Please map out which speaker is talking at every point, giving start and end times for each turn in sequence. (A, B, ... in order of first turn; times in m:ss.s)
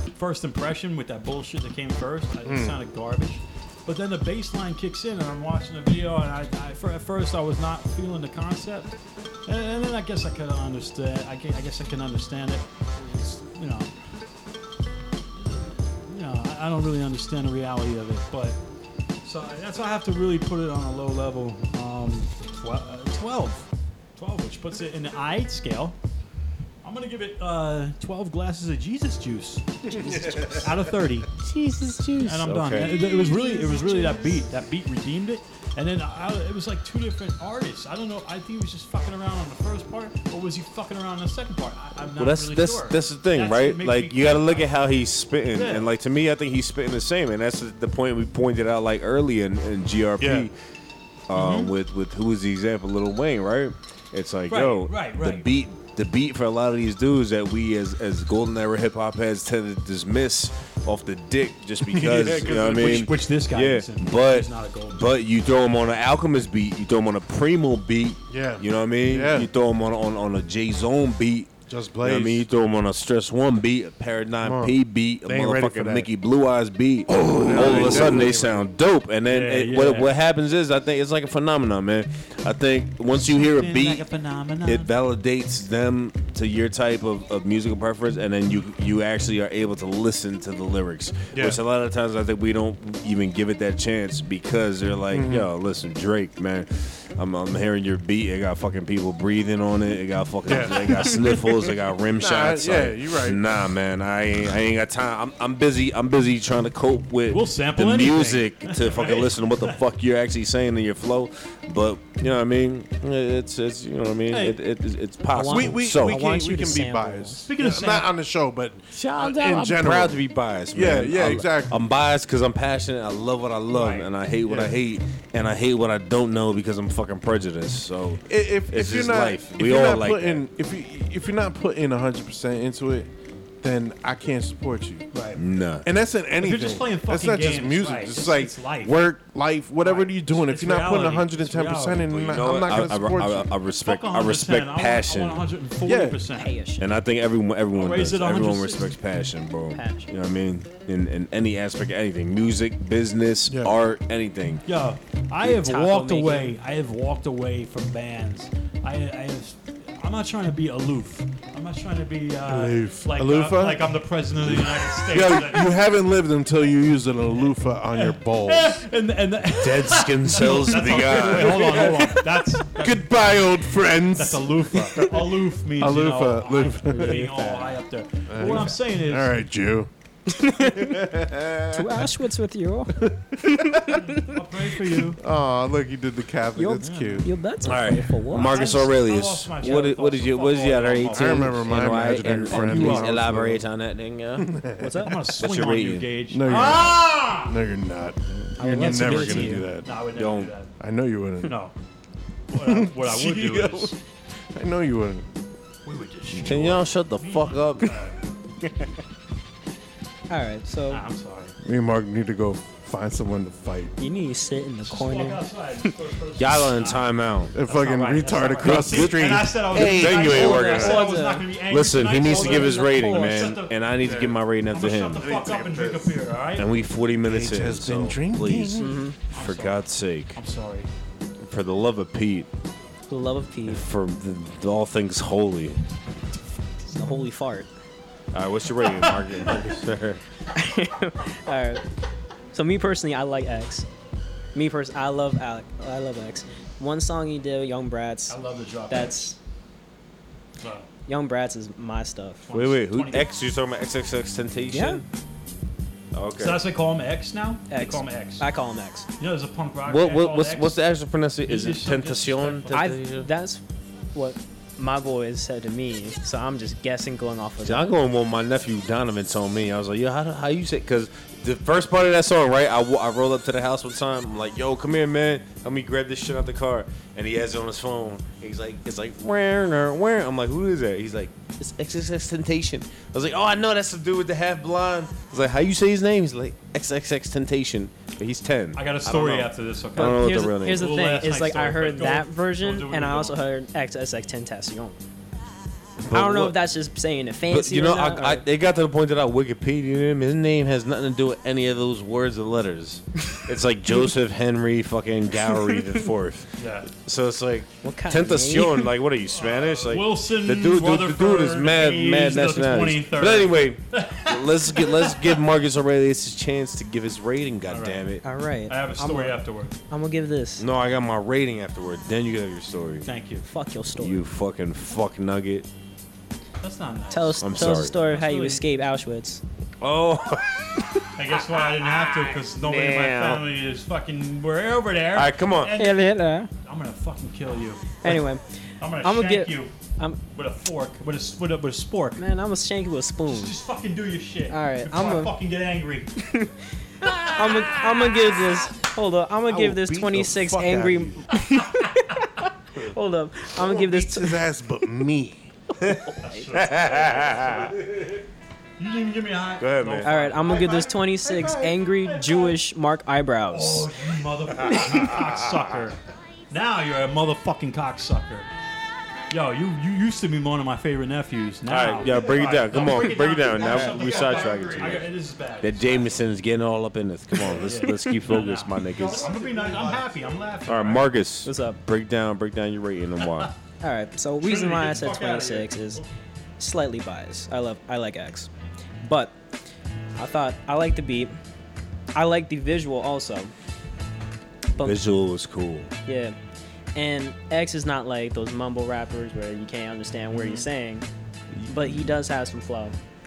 0:00.2-0:08.9 A
0:02.4-0:02.8 B
0:09.4-0:13.9 A
0:15.3-0:18.6 A
0:19.2-0:26.0 A
0:26.8-0:31.3 A
0:30.0-0:30.7 C
0:30.0-0:30.6 B
0:31.4-0:33.1 C
0:32.2-0:44.7 A
0:33.2-0:34.3 D
0:42.2-0:50.5 C
0:45.5-0:45.9 A
0:50.2-0:50.5 B
0:51.3-1:11.5 C
0:51.3-0:51.7 A
0:54.5-0:55.5 A
1:01.8-1:03.1 B
1:02.5-1:05.1 A
1:08.3-1:09.5 B
1:11.7-1:12.4 B
1:12.0-1:24.0 C
1:14.4-1:16.1 B
1:17.1-1:18.6 B
1:17.6-1:18.1 A
1:19.3-1:20.1 A
1:23.3-1:24.9 A
1:24.6-1:56.4 C
1:31.3-1:31.6 B
1:35.1-1:35.5 B
1:40.4-1:41.4 B
1:42.2-1:43.5 B
1:47.3-1:49.8 A
1:54.3-1:54.6 A
1:55.3-1:57.5 D
1:55.4-2:00.2 B
1:57.4-1:58.1 A
1:58.9-2:10.4 C
2:00.7-2:01.8 B
2:03.7-2:04.1 A
2:04.4-2:04.8 B
2:08.3-2:13.1 B
2:13.6-2:15.0 B
2:15.1-2:15.4 A
2:15.3-2:15.9 C
2:15.8-2:23.5 B
2:16.4-2:19.1 A
2:19.8-2:22.1 A
2:22.1-2:25.5 C
2:23.8-2:26.5 A
2:25.8-2:26.2 B
2:26.4-2:26.9 D
2:26.8-2:34.6 C
2:27.7-2:28.9 A
2:29.7-2:30.1 D
2:33.5-2:33.7 B
2:34.6-2:45.8 A
2:35.4-2:36.4 C
2:35.9-2:36.4 D
2:42.5-2:43.9 B
2:44.5-2:48.8 B
2:47.4-2:53.5 A
2:49.6-2:52.2 C
2:50.4-2:52.1 B
2:52.7-2:55.1 B
2:54.1-2:59.4 A
2:55.8-2:57.3 B
2:56.9-2:57.8 D
2:58.3-2:59.9 B
3:00.4-3:00.9 D
3:01.0-3:01.5 B
3:01.7-3:03.1 D
3:03.5-3:03.9 B
3:04.0-3:05.2 A
3:05.2-3:07.3 B
3:06.6-3:08.9 D
3:06.8-3:07.2 A
3:07.6-3:14.5 C
3:08.3-3:13.2 A
3:11.1-3:13.6 B
3:14.4-3:15.1 B
3:14.8-3:15.2 D
3:15.0-3:17.6 A
3:15.4-3:16.1 C
3:16.3-3:19.9 B
3:18.6-3:19.7 D
3:18.8-3:20.7 A
3:20.1-3:20.5 C
3:20.8-3:21.5 B
3:21.4-3:21.7 A
3:22.5-3:23.9 A
3:22.5-3:23.9 B
3:24.5-3:25.2 B
3:25.8-3:28.2 A
3:26.4-3:28.0 C
3:30.3-3:31.0 D
3:30.9-3:31.5 A
3:31.6-3:33.9 B
3:34.0-3:35.4 D
3:34.8-3:43.7 A
3:36.4-3:37.5 C
3:37.5-3:41.0 B
3:38.6-3:41.1 C
3:40.2-3:41.5 D
3:41.7-3:45.3 C
3:42.0-3:43.5 D
3:44.0-3:44.4 B
3:44.7-3:46.7 A
3:45.2-3:46.2 B
3:46.6-3:50.4 C
3:47.2-3:48.9 B
3:48.8-3:49.2 D
3:49.3-3:49.8 A
3:50.3-3:50.9 A
3:51.4-3:52.5 C
3:53.1-3:53.8 D
3:53.6-3:55.8 C
3:56.9-3:57.2 A
3:56.9-3:57.7 D
3:58.3-4:00.2 C
4:00.5-4:01.8 D
4:02.5-4:03.8 D
4:04.5-4:08.4 D
4:08.3-4:09.3 A
4:08.9-4:09.4 D
4:10.6-4:10.9 A
4:11.1-4:12.4 D
4:12.4-4:13.3 A
4:12.5-4:15.1 C
4:14.7-4:15.0 D
4:16.1-4:16.6 C
4:16.4-4:18.4 A
4:17.7-4:19.1 D
4:19.2-4:20.8 A
4:19.8-4:23.3 C
4:21.4-4:22.9 A
4:22.7-4:23.6 D
4:24.1-4:27.9 D
4:27.6-4:50.9 C
4:48.7-4:53.4 A
4:49.9-4:55.0 D
4:56.0-4:56.6 C
4:56.1-4:58.4 D
4:57.5-5:18.2 C
5:06.6-5:06.9 A
5:07.8-5:08.9 D
5:09.3-5:15.4 A
5:17.7-5:18.0 A
5:18.2-5:20.6 D
5:18.7-5:19.7 A
5:20.6-5:23.1 C
5:23.0-5:23.4 A
5:23.4-5:24.2 D
5:24.0-5:25.7 C
5:26.6-5:28.6 A
5:27.1-5:29.4 D
5:27.4-5:27.9 C
5:29.8-5:33.4 C
5:31.2-5:36.1 A
5:35.1-5:35.7 C
5:35.8-5:36.5 D
5:36.6-5:38.2 A
5:38.0-5:38.4 D
5:38.8-5:39.7 A
5:39.0-5:40.2 D
5:40.3-5:42.2 A
5:42.2-5:43.5 D
5:43.3-5:46.1 A
5:44.5-5:45.3 D
5:46.2-5:46.5 D
5:47.1-5:52.0 D
5:49.5-5:51.3 B
5:52.8-5:54.4 D
5:53.6-5:55.4 B
5:55.8-5:58.0 C
5:56.2-5:57.8 A
5:58.8-6:02.6 A
5:59.6-6:00.1 C
6:00.0-6:03.9 D
6:03.5-6:06.0 A
6:04.7-6:05.1 D
6:04.7-6:05.3 C
6:06.5-6:08.5 A
6:09.3-6:16.2 A
6:11.6-6:19.3 C
6:14.4-6:14.7 B
6:17.4-6:21.1 A
6:19.2-6:20.3 B
6:20.6-6:23.5 C
6:21.4-6:21.8 D
6:23.2-6:23.5 A
6:23.8-6:26.0 D
6:24.4-6:26.0 A
6:26.6-6:28.5 D
6:29.0-6:29.3 D
6:30.2-6:31.4 D
6:32.1-6:33.5 D
6:34.8-6:35.0 D
6:34.8-6:35.9 C
6:36.0-6:36.4 D
6:36.9-6:41.1 D
6:41.5-6:42.1 C
6:41.7-6:43.0 D